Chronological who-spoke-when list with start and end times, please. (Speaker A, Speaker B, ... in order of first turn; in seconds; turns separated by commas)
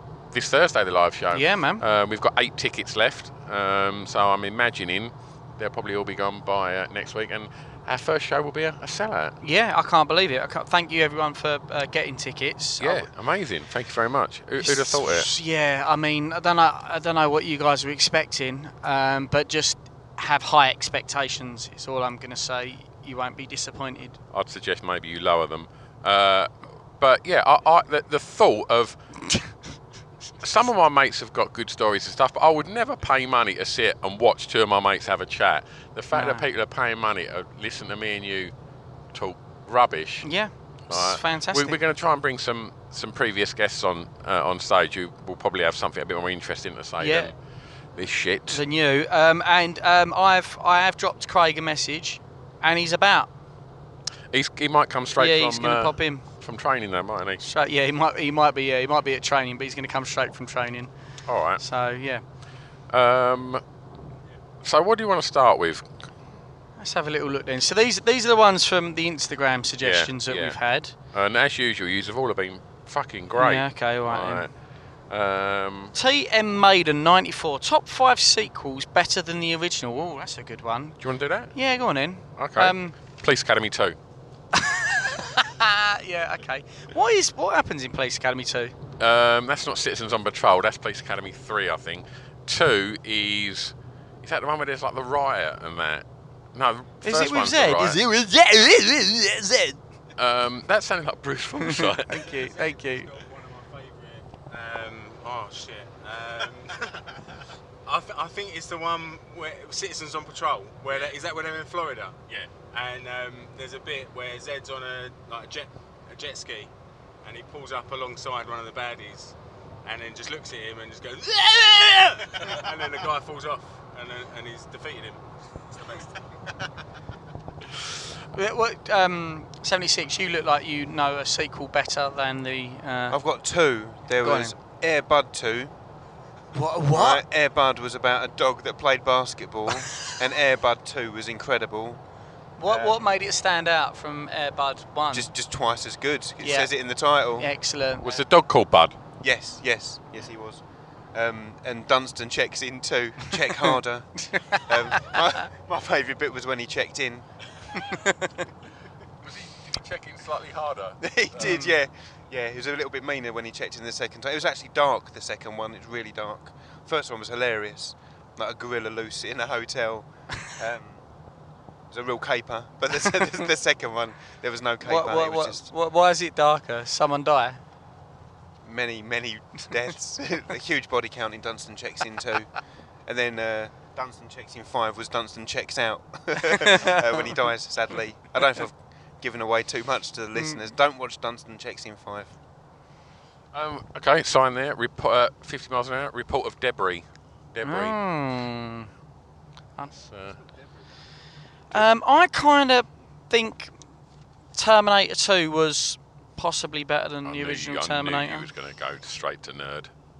Speaker A: 0.3-9.3, Speaker B: 1.3-1.8, Speaker B: 9.4-13.1, Speaker A: 12.8-15.3, Speaker B: 14.6-24.2, Speaker A: 24.3-29.0, Speaker A: 30.4-38.5, Speaker B: 36.1-36.4, Speaker A: 39.1-40.3, Speaker B: 40.2-41.8, Speaker A: 40.9-47.3, Speaker B: 47.0-47.3, Speaker A: 48.0-48.6, Speaker B: 48.5-53.3, Speaker A: 54.3-57.4, Speaker B: 55.1-56.2, Speaker B: 57.4-60.9, Speaker A: 61.3-61.6, Speaker B: 61.6-62.2, Speaker A: 62.9-63.6, Speaker A: 64.6-65.8, Speaker B: 66.8-70.9, Speaker A: 69.8-70.6, Speaker A: 71.1-74.5, Speaker B: 73.4-74.5, Speaker A: 75.1-75.9, Speaker B: 75.9-81.0, Speaker A: 81.0-81.5, Speaker B: 81.5-83.0, Speaker A: 82.4-84.0, Speaker B: 84.5-88.7, Speaker A: 89.0-98.0, Speaker B: 97.0-99.8, Speaker A: 100.2-102.1, Speaker B: 101.6-103.1, Speaker C: 102.1-107.1, Speaker C: 107.8-112.2, Speaker A: 110.9-111.2, Speaker C: 112.7-116.7, Speaker C: 117.2-126.2, Speaker B: 128.3-133.2, Speaker D: 133.1-135.7, Speaker B: 134.2-134.5, Speaker B: 136.5-137.2, Speaker D: 136.9-142.0, Speaker B: 142.6-145.3, Speaker D: 142.6-143.0, Speaker D: 145.1-147.5, Speaker B: 146.4-146.7, Speaker B: 147.3-148.1, Speaker A: 148.0-149.0, Speaker D: 149.2-150.6, Speaker D: 151.1-157.3, Speaker B: 153.6-155.4, Speaker B: 157.8-158.3, Speaker A: 159.2-161.5, Speaker D: 161.0-171.0, Speaker B: 161.4-161.8, Speaker D: 171.9-175.7, Speaker B: 174.8-177.6, Speaker D: 178.6-182.5, Speaker D: 183.1-192.3, Speaker B: 186.5-187.4, Speaker B: 190.3-190.7, Speaker A: 193.5-198.0, Speaker B: 197.6-198.9, Speaker A: 199.9-200.4, Speaker B: 201.7-203.7, Speaker B: 204.5-208.5, Speaker A: 207.2-209.9